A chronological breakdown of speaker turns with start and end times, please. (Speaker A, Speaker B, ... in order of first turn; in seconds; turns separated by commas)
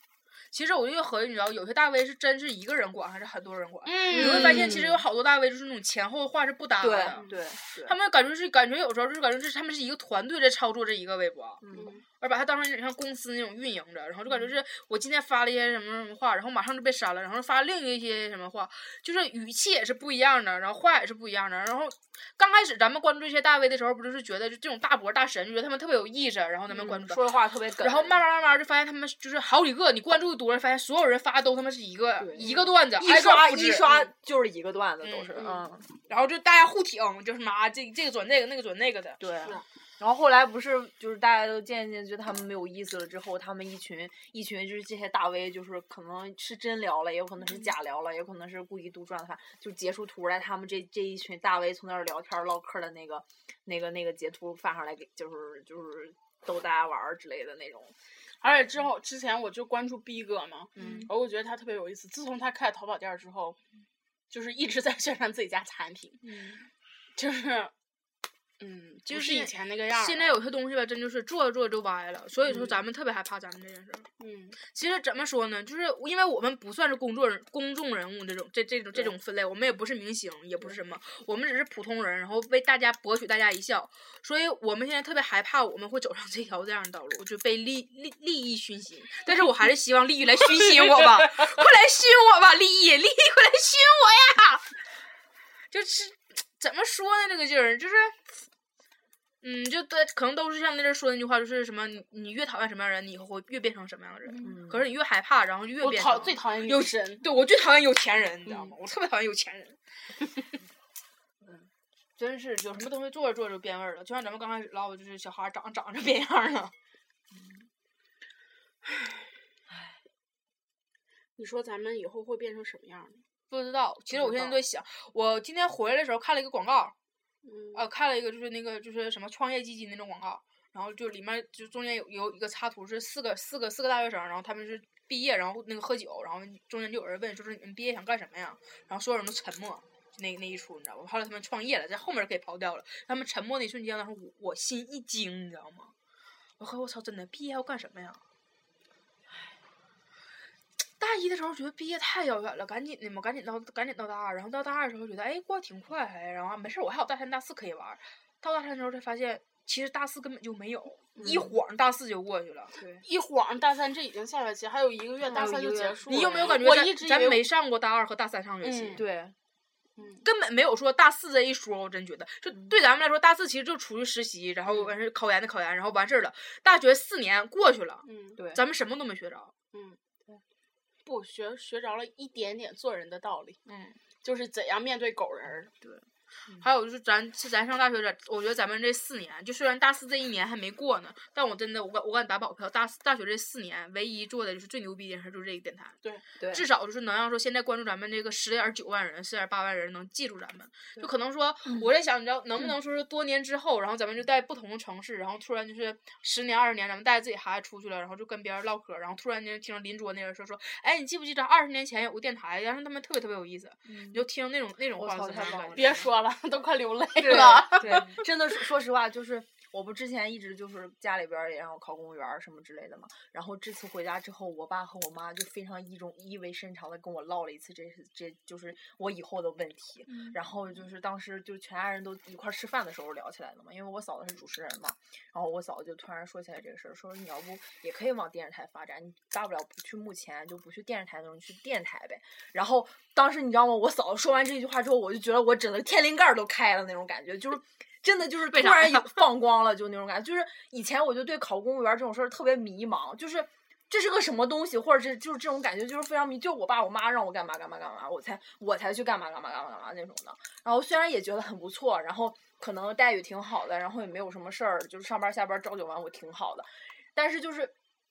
Speaker A: 0.5-7.3, Speaker B: 3.8-4.7, Speaker C: 4.1-5.0, Speaker C: 6.8-8.0, Speaker B: 7.1-7.4, Speaker A: 7.8-11.6, Speaker C: 11.6-11.9, Speaker B: 11.7-12.0, Speaker A: 12.2-27.2, Speaker C: 26.7-28.2, Speaker A: 27.8-34.1, Speaker C: 32.2-35.9, Speaker A: 35.0-35.4, Speaker B: 35.4-35.6, Speaker A: 36.0-39.2, Speaker C: 39.2-57.9, Speaker B: 58.4-63.6, Speaker A: 60.7-61.1, Speaker C: 60.8-61.1, Speaker B: 64.3-66.2, Speaker A: 66.2-66.7, Speaker B: 67.1-67.7, Speaker B: 68.6-70.4, Speaker A: 69.0-74.1, Speaker B: 72.5-72.7, Speaker B: 74.2-74.6, Speaker A: 74.6-94.8, Speaker A: 95.7-98.2, Speaker A: 99.4-109.8, Speaker C: 104.4-104.9, Speaker B: 105.8-107.3, Speaker B: 108.5-108.8, Speaker A: 112.2-116.7, Speaker C: 117.3-117.7, Speaker B: 121.3-123.2, Speaker A: 123.5-126.9, Speaker B: 124.1-124.6, Speaker B: 127.4-127.8, Speaker A: 127.7-145.9, Speaker A: 146.6-148.2, Speaker A: 151.0-162.8, Speaker C: 161.2-161.5, Speaker C: 162.8-163.0, Speaker B: 163.0-167.4, Speaker A: 165.3-169.0, Speaker C: 165.3-166.4, Speaker B: 168.6-169.0, Speaker C: 169.0-169.3, Speaker B: 170.0-170.2, Speaker A: 170.2-179.5, Speaker B: 174.7-174.9, Speaker B: 178.0-178.4, Speaker C: 178.4-178.6, Speaker B: 179.7-180.0, Speaker B: 181.0-183.6, Speaker A: 183.7-184.0, Speaker B: 184.2-185.7, Speaker A: 186.6-196.0, Speaker C: 196.4-196.7, Speaker A: 196.5-216.1, Speaker C: 213.9-214.2, Speaker C: 214.9-216.1, Speaker B: 215.4-218.2, Speaker C: 217.2-267.7, Speaker A: 217.3-218.2, Speaker A: 230.1-230.4, Speaker A: 248.5-249.2